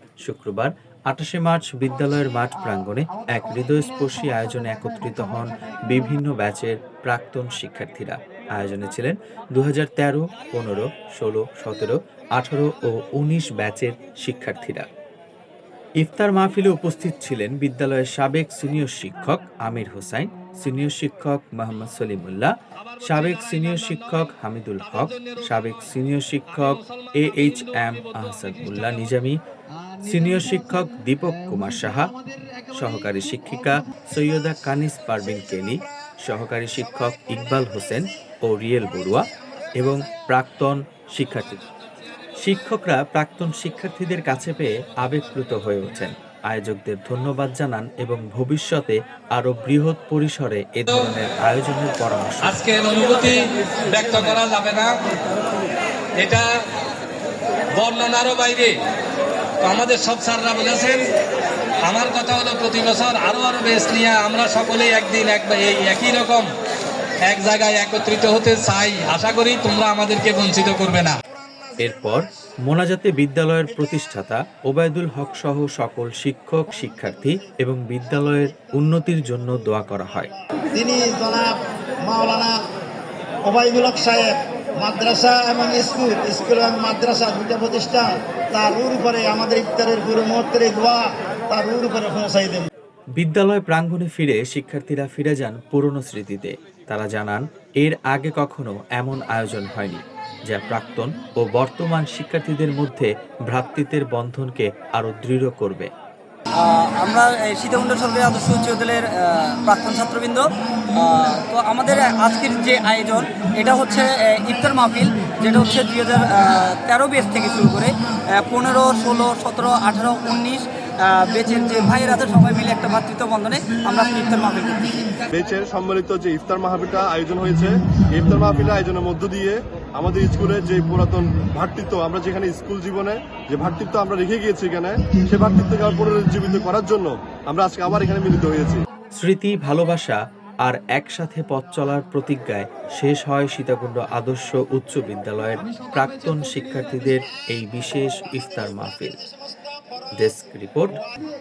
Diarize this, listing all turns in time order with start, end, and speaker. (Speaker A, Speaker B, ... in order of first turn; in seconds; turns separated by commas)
Speaker A: 0.2-14.9, Speaker A: 16.0-29.4, Speaker A: 30.0-32.1, Speaker A: 32.7-39.2, Speaker A: 39.8-41.6, Speaker A: 42.4-52.6, Speaker B: 50.9-51.1, Speaker B: 52.4-55.0, Speaker B: 56.2-56.5, Speaker B: 57.7-58.7, Speaker B: 59.6-61.0, Speaker B: 61.8-66.5, Speaker B: 67.2-71.2, Speaker A: 71.8-80.3, Speaker C: 80.7-81.5, Speaker C: 82.0-82.6, Speaker C: 83.5-92.7, Speaker A: 93.2-105.9, Speaker D: 106.6-125.2, Speaker E: 125.3-138.8, Speaker A: 139.2-149.2, Speaker A: 150.1-151.0